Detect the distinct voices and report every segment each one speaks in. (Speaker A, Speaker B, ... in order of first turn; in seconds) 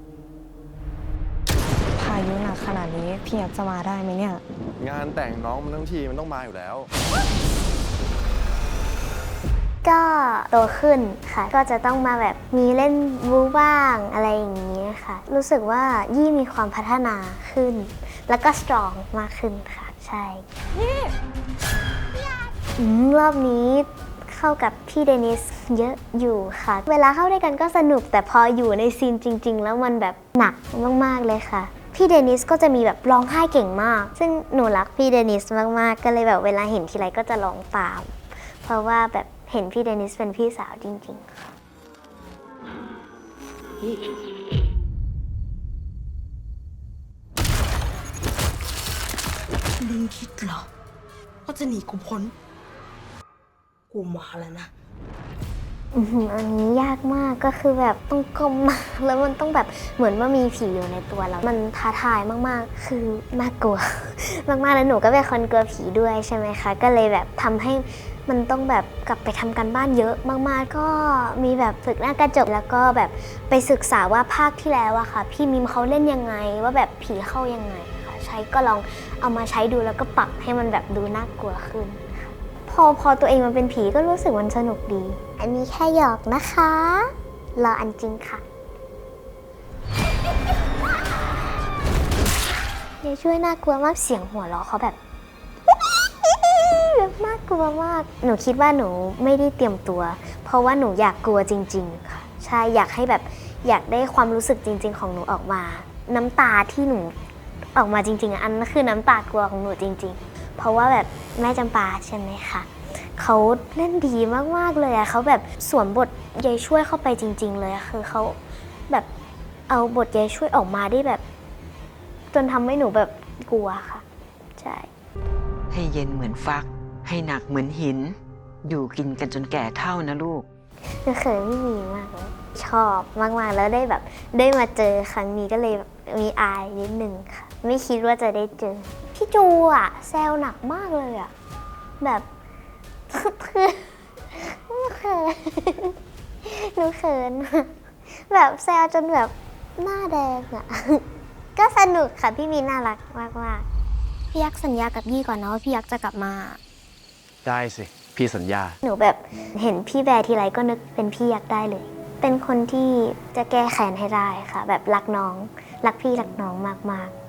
Speaker A: 2.0-4.4
Speaker B: 4.8-6.9, 157.4-158.8
Speaker C: 9.8-20.5, 22.8-41.5, 55.9-88.4, 93.0-95.0, 96.0-107.1, 107.7-118.4, 119.7-121.2, 122.3-124.0, 124.6-124.9, 131.0-141.3, 142.0-142.3, 143.1-151.0, 151.6-153.7, 154.3-156.6, 158.8-167.1
Speaker D: 49.8-50.7, 51.5-52.3, 53.9-54.7
Speaker E: 125.7-130.4